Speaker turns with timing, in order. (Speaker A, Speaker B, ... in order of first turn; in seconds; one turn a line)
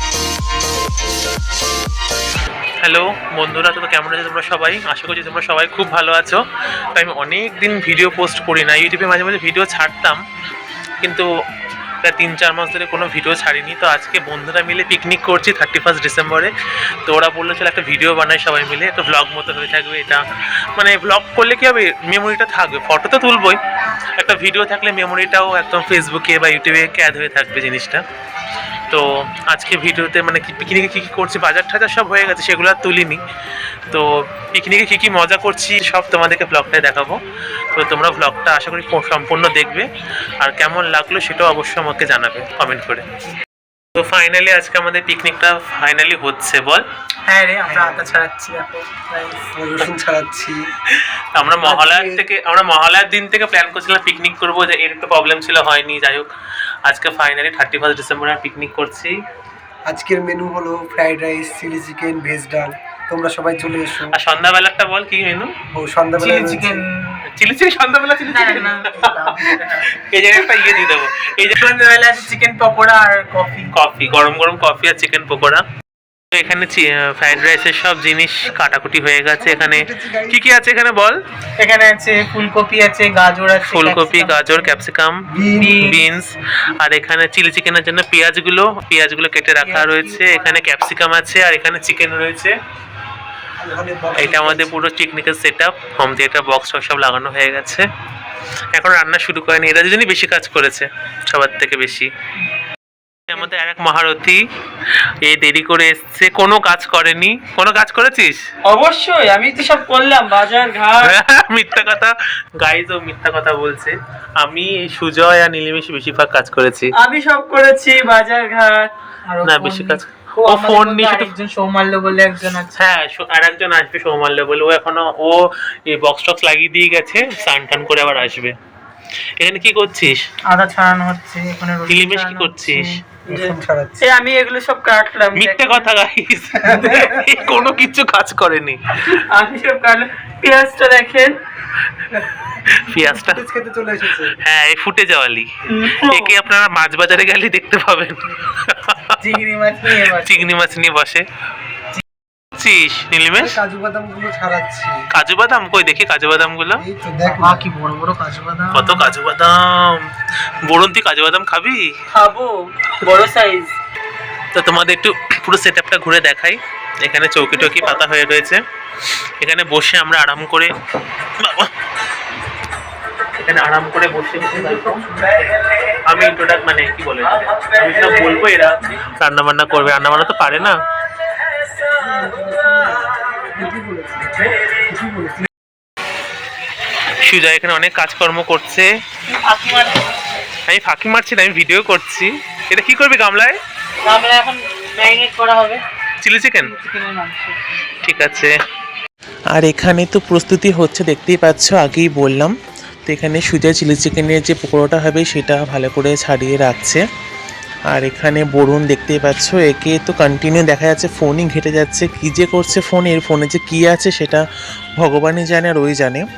Speaker A: 2.8-6.4
Speaker A: 6.9-10.2
Speaker A: 11.0-11.2
Speaker A: 12.0-16.5
Speaker A: 17.0-20.2
Speaker A: 20.7-23.6
Speaker A: 24.2-28.0
Speaker A: 28.9-33.2
Speaker A: 33.9-37.2
Speaker A: 37.7-39.9
Speaker A: 40.4-43.0
Speaker A: 44.0-46.8
Speaker B: 47.3-49.5
Speaker C: 47.7-48.2
Speaker C: 49.5-50.6
Speaker A: 50.9-56.3
Speaker C: 51.6-52.2
Speaker A: 56.8-59.1
Speaker C: 59.9-64.1
Speaker A: 64.1-65.5
Speaker C: 65.7-66.8
Speaker B: 66.2-67.2
Speaker A: 67.3-69.3
Speaker B: 68.2-69.9
Speaker A: 70.0-71.6
Speaker B: 70.5-73.7
Speaker A: 73.7-75.6
Speaker A: 76.3-81.2
Speaker C: 79.3-80.4
Speaker B: 81.6-84.5
Speaker A: 83.6-92.5
Speaker C: 85.3-85.9
Speaker B: 85.6-86.0
Speaker B: 89.6-90.6
Speaker C: 93.6-94.8
Speaker A: 94.1-97.8
Speaker A: 98.7-102.1
Speaker A: 103.3-104.4
Speaker A: 105.2-108.4
Speaker B: 108.6-111.1
Speaker A: 111.0-116.9
Speaker B: 117.0-122.8
Speaker A: 119.4-121.3
Speaker A: 122.7-128.6
Speaker A: 129.4-130.2
Speaker B: 130.5-135.9
Speaker A: 131.9-133.0
Speaker C: 133.3-134.0
Speaker A: 135.3-138.9
Speaker C: 136.7-137.5
Speaker B: 139.1-141.3
Speaker A: 142.7-143.4
Speaker C: 143.0-144.3
Speaker A: 144.4-149.0
Speaker B: 145.7-146.3
Speaker B: 149.2-150.5
Speaker A: 150.0-151.2
Speaker A: 152.6-153.6
Speaker C: 153.3-155.0
Speaker A: 155.1-156.8
Speaker C: 156.8-157.7
Speaker B: 157.2-159.1
Speaker A: 158.7-160.0
Speaker A: 160.7-161.8
Speaker B: 162.1-163.7
Speaker A: 164.5-168.6
Speaker A: 169.4-170.7
Speaker A: 171.4-171.7
Speaker A: 173.4-175.2
Speaker A: 176.0-180.8
Speaker C: 182.0-185.4
Speaker A: 187.2-188.9
Speaker B: 189.3-189.9
Speaker A: 190.7-193.6
Speaker B: 194.0-195.8
Speaker A: 196.2-196.7
Speaker B: 196.6-197.6
Speaker A: 198.0-198.5
Speaker A: 199.6-202.5
Speaker A: 203.1-207.0
Speaker A: 207.9-214.4
Speaker A: 215.0-216.2